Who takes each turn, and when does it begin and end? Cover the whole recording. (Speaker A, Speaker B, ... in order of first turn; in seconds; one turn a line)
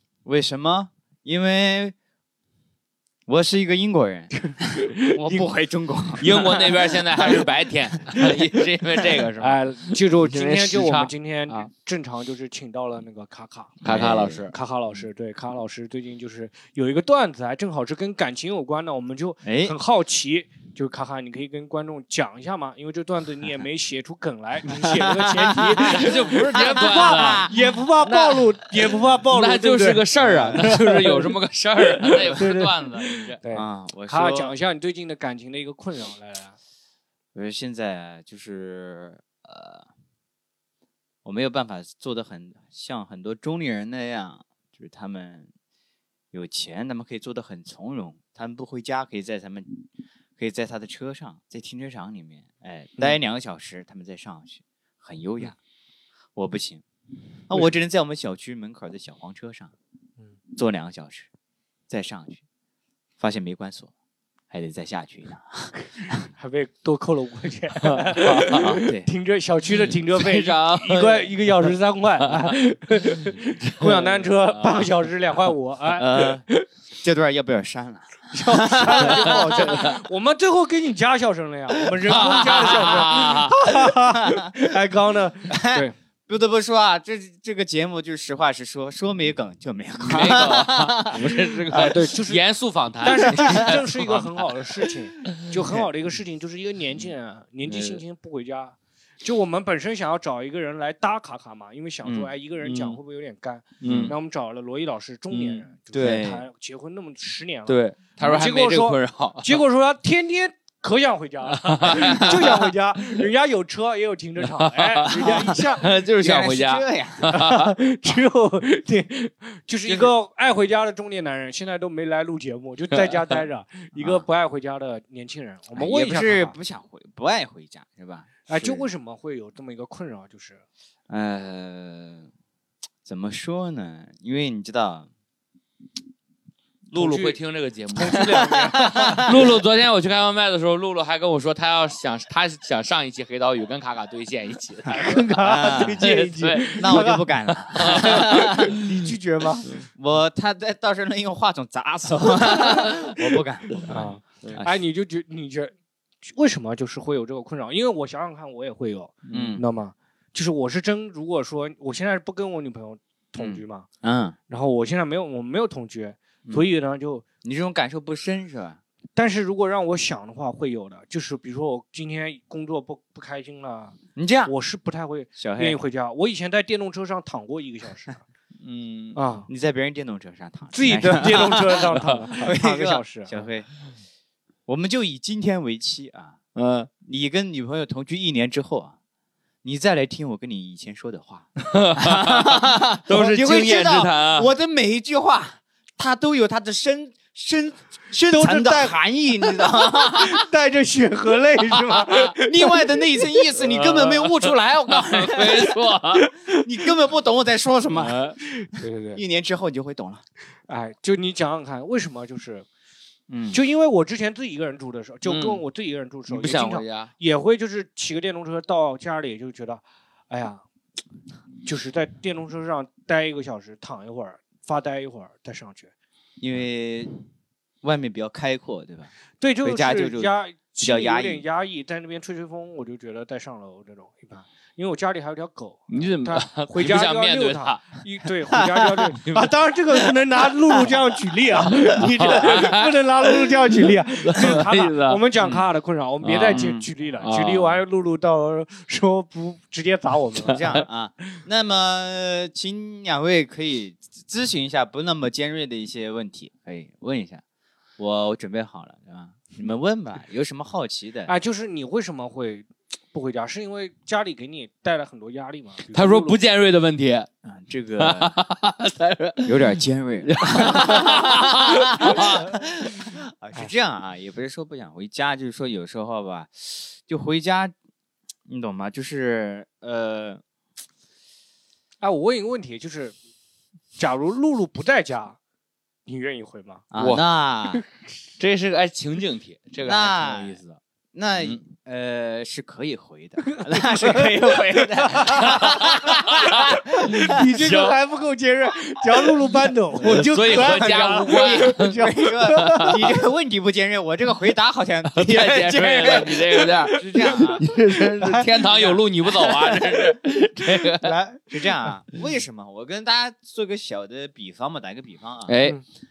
Speaker A: 0.2-1.9
Speaker A: 3.3-4.4
Speaker B: 4.4-5.5
Speaker A: 5.1-6.3
Speaker B: 6.2-7.5
Speaker C: 6.2-11.7
Speaker B: 9.4-13.8
Speaker C: 13.8-14.5
Speaker A: 13.8-14.5
Speaker B: 14.5-31.3
Speaker A: 19.4-19.8
Speaker A: 24.9-27.6
Speaker C: 25.8-28.7
Speaker C: 29.3-33.4
Speaker B: 31.9-36.6
Speaker A: 33.5-34.5
Speaker A: 37.3-39.9
Speaker A: 41.2-45.5
Speaker A: 46.3-49.8
Speaker A: 50.4-55.6
Speaker A: 56.4-56.8
Speaker A: 57.5-59.7
Speaker A: 60.5-61.3
Speaker A: 61.9-62.4
Speaker A: 63.2-63.9
Speaker A: 64.5-66.3
Speaker B: 66.4-76.7
Speaker C: 67.9-68.6
Speaker A: 68.4-69.1
Speaker C: 70.1-71.3
Speaker C: 73.8-74.9
Speaker A: 76.0-76.4
Speaker A: 77.0-79.9
Speaker B: 78.3-86.0
Speaker A: 82.0-83.4
Speaker C: 82.1-83.6
Speaker A: 83.9-84.5
Speaker A: 85.5-91.9
Speaker C: 90.0-94.3
Speaker B: 91.3-92.4
Speaker B: 93.0-115.9
Speaker A: 93.4-93.7
Speaker C: 97.7-98.0
Speaker A: 102.0-102.3
Speaker C: 102.6-103.0
Speaker C: 103.8-104.1
Speaker A: 103.8-104.2
Speaker C: 105.3-105.7
Speaker A: 105.9-106.5
Speaker C: 107.7-109.6
Speaker C: 111.5-112.5
Speaker A: 111.9-112.4
Speaker C: 114.5-117.7
Speaker A: 115.1-117.4
Speaker B: 117.3-126.6
Speaker C: 122.9-123.2
Speaker A: 124.0-124.2
Speaker A: 125.8-128.9
Speaker B: 128.5-130.6
Speaker A: 131.1-132.3
Speaker A: 133.1-135.1
Speaker C: 136.9-147.1
Speaker B: 136.9-137.4
Speaker B: 137.9-139.4
Speaker A: 138.3-139.3
Speaker B: 144.9-149.6
Speaker A: 145.3-146.1
Speaker A: 146.7-154.7
Speaker C: 147.7-148.4
Speaker B: 152.2-153.1
Speaker B: 153.8-155.7
Speaker C: 153.9-154.7
Speaker B: 156.3-163.9
Speaker C: 159.2-159.6
Speaker A: 159.3-159.6
Speaker A: 163.4-164.4
Speaker B: 164.5-167.2
Speaker A: 167.4-168.8
Speaker B: 169.2-178.2
Speaker A: 174.2-174.5
Speaker A: 175.4-175.8
Speaker C: 178.6-179.2
Speaker B: 179.1-179.5
Speaker A: 179.5-183.7
Speaker B: 180.7-183.4
Speaker C: 181.9-182.2
Speaker A: 184.7-186.4
Speaker C: 186.6-186.9
Speaker A: 187.0-188.9
Speaker A: 189.6-200.5
Speaker C: 191.7-194.5
Speaker B: 198.3-199.0
Speaker B: 200.1-203.2
Speaker A: 202.4-205.8
Speaker C: 203.6-206.3
Speaker B: 206.2-206.7
Speaker A: 206.6-208.3
Speaker C: 207.9-208.4
Speaker B: 208.7-209.2
Speaker A: 209.2-210.2
Speaker B: 210.7-212.7
Speaker A: 213.3-213.6
Speaker B: 213.5-220.7
Speaker C: 215.2-215.6
Speaker C: 216.3-217.1
Speaker B: 221.7-225.9
Speaker A: 226.4-227.1
Speaker A: 227.8-231.4
Speaker B: 229.4-250.8
Speaker C: 235.9-238.0
Speaker C: 239.2-239.5
Speaker C: 241.9-243.5
Speaker C: 244.3-245.6
Speaker C: 246.2-246.6
Speaker A: 246.5-246.9
Speaker C: 247.2-247.8
Speaker A: 250.4-257.4
Speaker A: 258.0-261.3
Speaker B: 261.3-266.4
Speaker C: 265.9-267.3
Speaker A: 267.4-268.3
Speaker C: 268.0-272.5
Speaker A: 269.4-277.8
Speaker B: 272.0-272.4
Speaker A: 278.5-280.4
Speaker B: 282.0-283.1
Speaker B: 284.0-285.4
Speaker B: 286.1-286.9
Speaker A: 286.9-287.8
Speaker C: 287.0-287.2
Speaker C: 288.4-290.8
Speaker A: 289.9-290.6
Speaker A: 291.1-297.4
Speaker B: 293.4-303.1
Speaker C: 295.3-298.0
Speaker A: 300.0-307.6
Speaker C: 300.0-302.0
Speaker C: 302.6-302.9
Speaker C: 305.1-311.1
Speaker B: 306.0-311.9
Speaker A: 311.5-315.6
Speaker C: 315.5-315.8